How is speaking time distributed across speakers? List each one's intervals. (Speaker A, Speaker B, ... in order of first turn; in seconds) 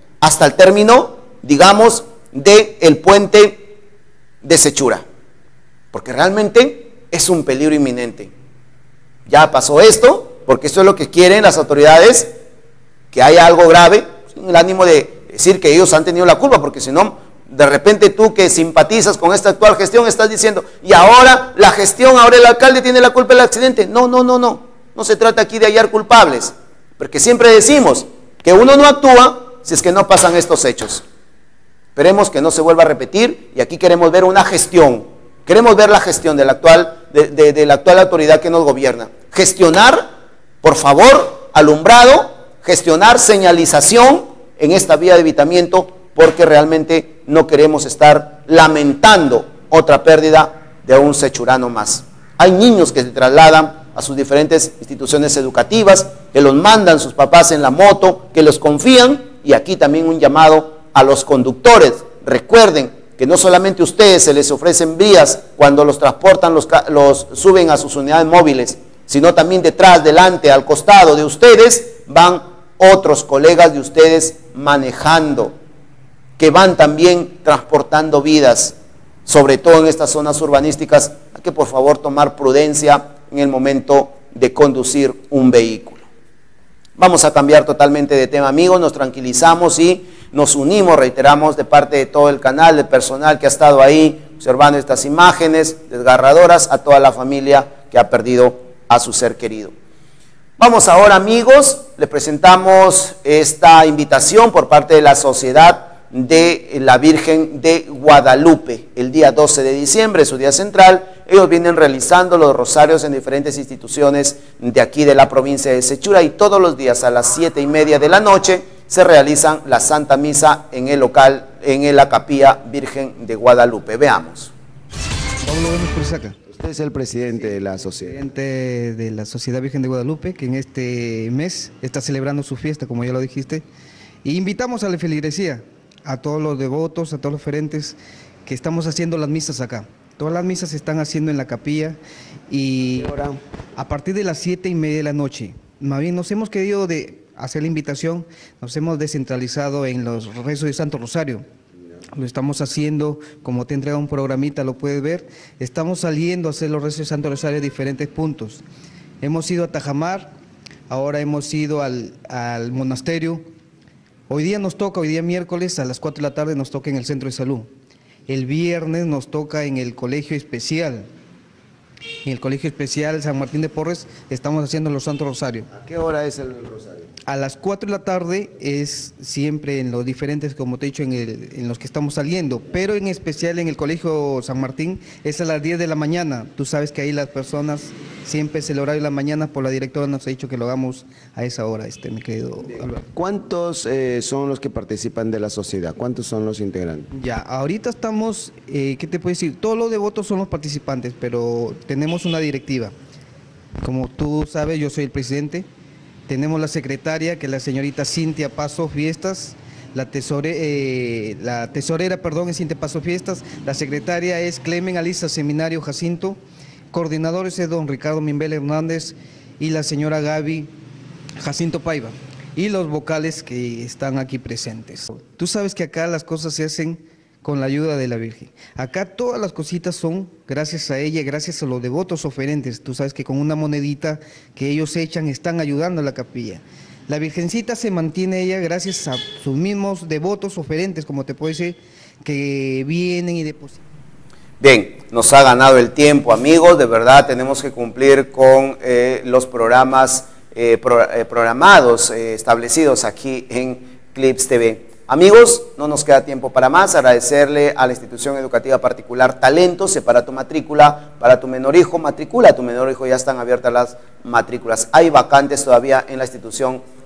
Speaker A: 0.2-3.7, 4.4-5.0, 5.9-8.3, 9.3-12.3, 13.1-31.0, 32.0-40.1, 40.6-75.5, 76.4-86.0, 87.0-99.7, 100.6-124.5, 175.9-176.5, 244.6-266.8
Speaker B: 125.4-126.4, 127.3-133.6, 134.2-151.5, 152.2-158.6, 159.2-160.3, 160.9-163.5, 164.3-167.7, 168.3-171.1, 172.2-175.7, 177.3-193.1, 197.1-202.9, 203.8-205.7, 206.3-216.4, 216.9-220.7, 221.4-243.8
Speaker C: 126.5-128.2, 176.7-177.0, 193.1-197.1